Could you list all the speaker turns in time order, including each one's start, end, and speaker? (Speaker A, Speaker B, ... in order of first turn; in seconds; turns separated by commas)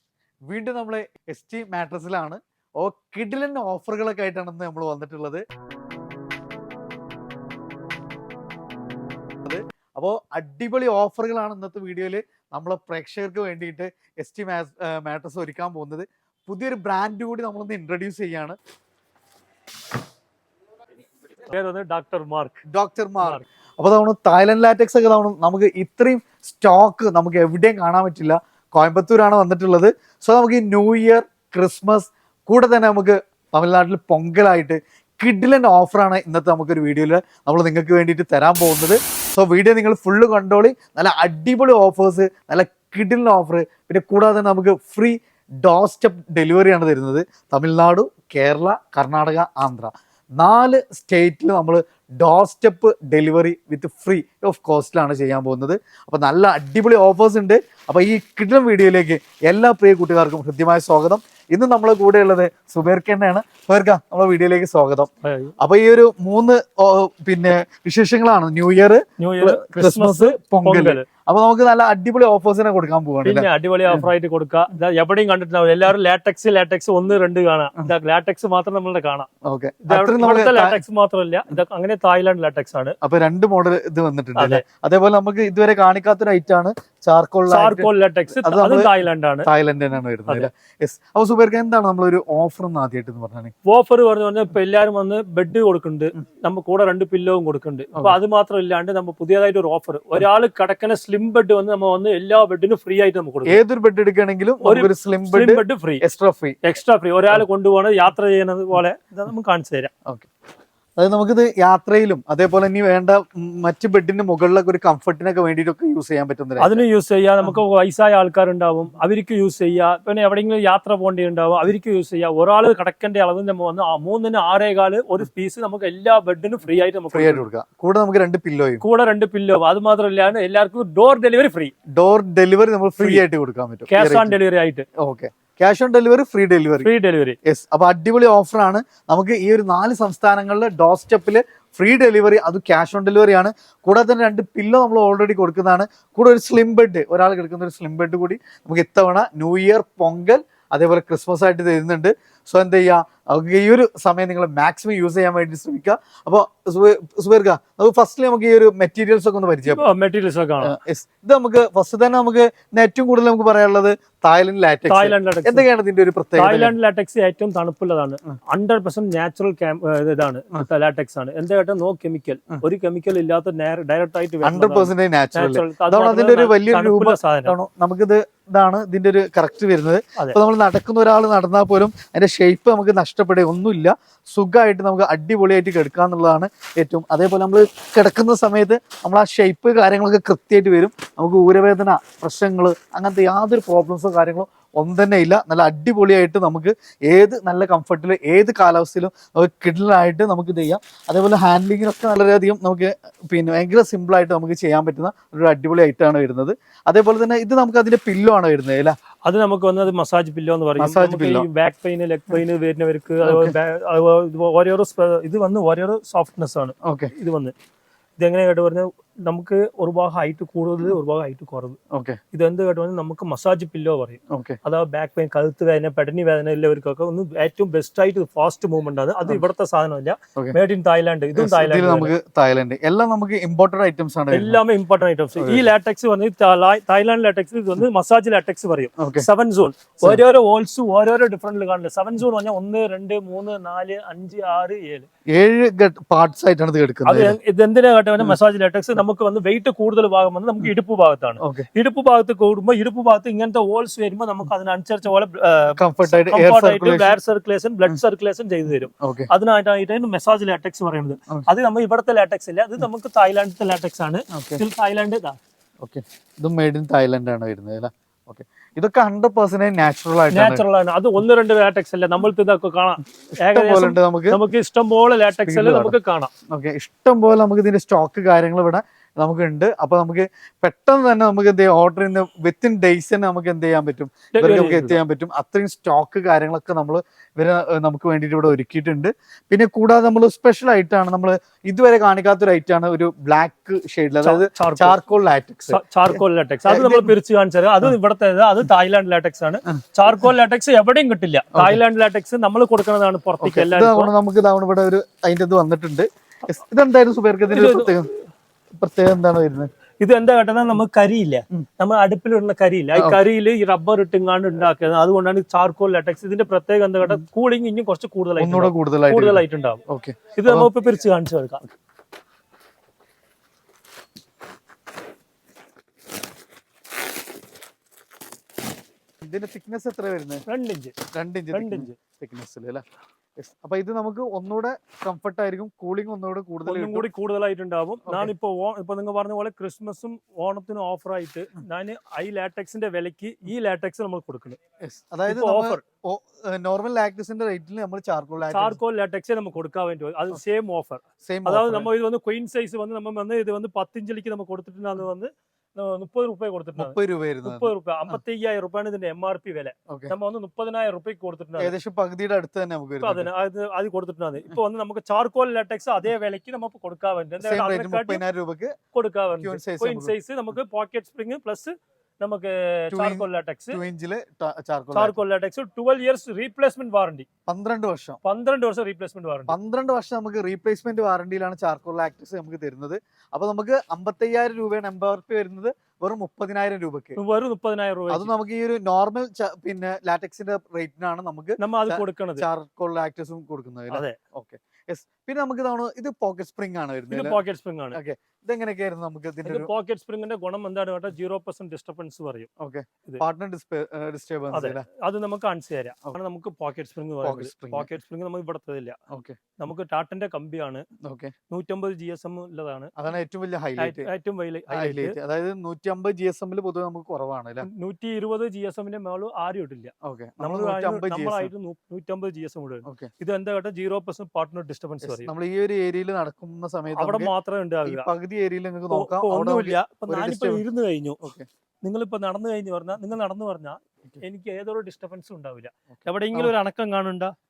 Speaker A: 0.5-5.4, Speaker A: 9.4-18.6, Speaker B: 21.4-22.6, Speaker A: 22.7-74.1, Speaker B: 65.2-65.5, Speaker B: 69.2-71.0, Speaker B: 73.2-79.3, Speaker A: 79.4-80.8, Speaker B: 79.8-83.0, Speaker A: 83.0-93.5, Speaker B: 84.3-84.6, Speaker B: 87.5-89.5, Speaker B: 93.7-103.6, Speaker A: 103.5-106.6, Speaker B: 104.6-106.0, Speaker B: 106.6-109.9, Speaker A: 111.0-116.8, Speaker B: 116.6-127.4, Speaker A: 127.1-128.8, Speaker B: 128.8-131.7, Speaker A: 131.9-134.3, Speaker B: 133.0-133.2, Speaker B: 133.9-134.8, Speaker A: 135.0-136.9, Speaker B: 136.8-137.4, Speaker A: 137.4-159.9, Speaker B: 159.7-160.7, Speaker A: 160.6-166.7, Speaker B: 164.9-165.7, Speaker B: 166.3-177.5, Speaker A: 174.4-208.9, Speaker B: 209.2-217.5, Speaker A: 210.8-211.5, Speaker A: 213.2-213.6, Speaker A: 216.8-217.1, Speaker B: 218.2-221.8, Speaker A: 221.9-222.2, Speaker B: 222.3-232.1, Speaker A: 224.3-224.6, Speaker A: 231.3-234.6, Speaker B: 234.3-245.1, Speaker A: 235.3-235.7, Speaker A: 239.0-239.3, Speaker A: 245.3-247.3, Speaker B: 247.0-265.4, Speaker A: 251.4-251.7, Speaker A: 255.7-257.1, Speaker A: 259.0-259.3, Speaker A: 264.3-264.6, Speaker A: 265.8-270.6, Speaker B: 270.3-276.3, Speaker A: 273.4-274.4, Speaker A: 275.4-275.9, Speaker A: 276.5-297.1, Speaker B: 284.3-285.0, Speaker B: 294.2-294.9, Speaker B: 295.7-304.1, Speaker A: 299.7-300.2, Speaker A: 301.5-301.8, Speaker A: 303.4-308.1, Speaker B: 307.5-307.9, Speaker A: 308.8-309.7, Speaker B: 310.0-319.8, Speaker A: 312.9-313.2, Speaker A: 318.4-320.7, Speaker B: 320.4-321.6, Speaker A: 329.2-330.4, Speaker B: 330.5-330.9, Speaker A: 331.1-332.8, Speaker B: 331.5-331.9, Speaker A: 333.4-337.1, Speaker B: 336.6-344.6, Speaker A: 338.1-338.3, Speaker A: 344.8-348.8, Speaker B: 345.3-345.8, Speaker B: 348.4-361.7, Speaker A: 351.2-351.9, Speaker A: 356.8-358.2, Speaker A: 359.9-360.1, Speaker A: 361.6-363.3, Speaker B: 363.0-368.2, Speaker A: 367.4-368.7, Speaker B: 368.9-373.8, Speaker A: 369.4-370.1, Speaker A: 372.9-375.2, Speaker B: 374.9-377.3, Speaker A: 377.5-378.2, Speaker B: 378.2-379.6, Speaker A: 379.5-387.2, Speaker B: 387.2-388.3, Speaker A: 388.1-397.4, Speaker B: 391.6-392.4, Speaker B: 393.9-394.2, Speaker B: 397.1-398.0, Speaker A: 397.9-399.7, Speaker B: 399.4-402.5, Speaker A: 402.6-404.8, Speaker B: 404.5-409.0, Speaker A: 407.2-407.9, Speaker A: 409.1-409.4, Speaker B: 409.6-410.9, Speaker A: 411.0-411.3, Speaker B: 411.5-412.9, Speaker A: 413.0-414.1, Speaker B: 413.8-415.1, Speaker A: 414.7-417.7, Speaker B: 417.6-425.3, Speaker A: 420.0-421.5, Speaker A: 422.8-423.1, Speaker A: 425.0-427.3, Speaker B: 426.9-428.1, Speaker A: 427.8-430.6, Speaker B: 428.9-431.2, Speaker A: 431.2-431.5, Speaker B: 431.8-437.3, Speaker A: 435.9-436.5